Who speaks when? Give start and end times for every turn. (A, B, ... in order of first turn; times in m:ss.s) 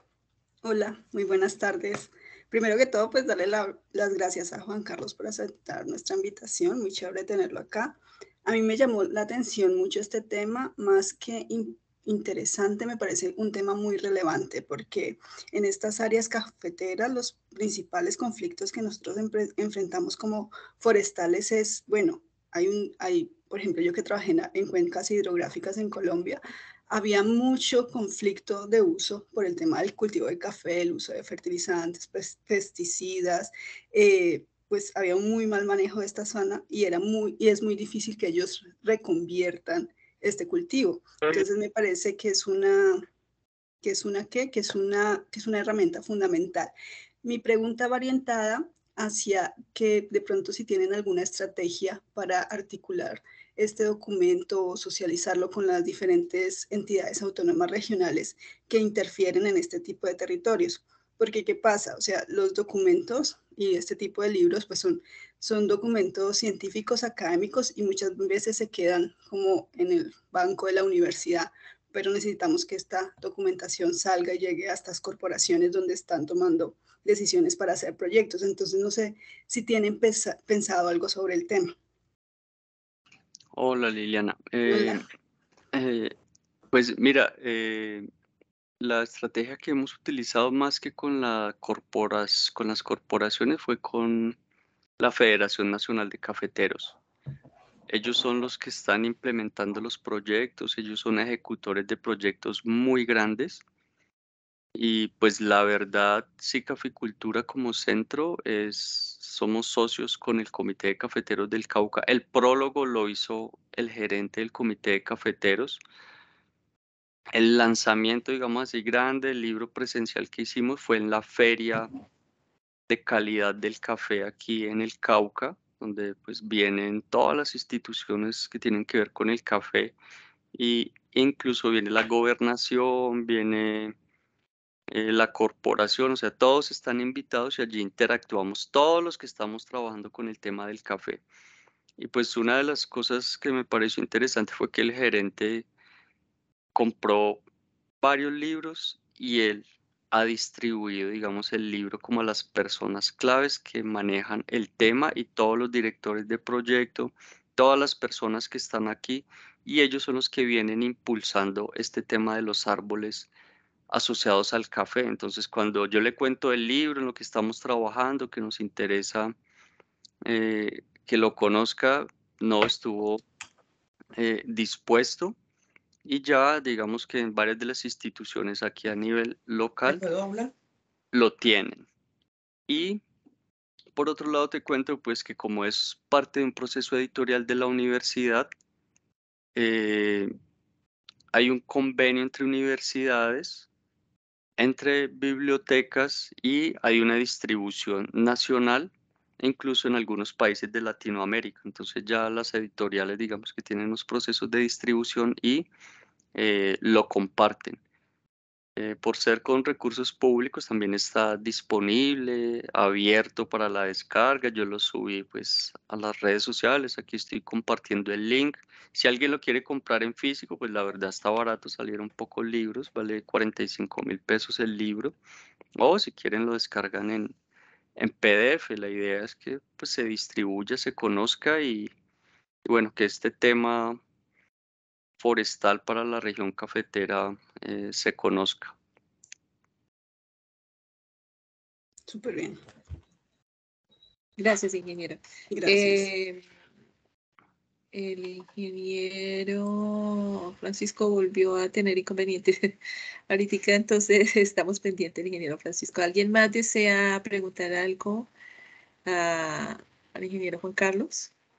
0:00.6-0:43.1 A
0:43.8-0:46.7 A
0:47.2-1:21.7 A
1:23.5-1:25.0 B
1:24.7-1:25.0 A
1:25.7-1:26.1 B
1:26.7-1:28.1 B
1:28.8-1:34.4 B
1:35.0-1:37.0 B
1:37.9-1:43.6 B
1:44.7-1:55.8 B
1:57.3-2:01.9 B
2:02.9-2:09.9 B
2:10.5-2:13.9 B
2:14.9-2:21.2 B
2:22.0-2:25.6 B
2:26.7-2:27.4 B
2:28.0-2:43.3 B
2:43.9-2:49.3 B
2:50.2-2:53.2 B
2:54.2-2:55.3 B
2:56.0-3:00.1 B
3:00.1-3:00.5 A
3:01.1-3:01.8 B
3:02.7-3:03.0 B
3:04.0-3:08.5 B
3:09.6-3:10.3 B
3:11.3-3:13.7 B
3:14.6-3:25.7 B
3:26.3-3:27.8 B
3:28.8-3:45.1 B
3:45.8-3:47.3 B
3:48.0-3:51.9 B
3:52.6-3:54.0 B
3:55.2-3:58.7 B
4:02.1-4:02.6 A
4:04.4-4:06.4 C
4:05.5-4:06.1 A
4:07.9-4:12.8 C
4:13.3-4:18.3 C
4:19.0-4:21.3 C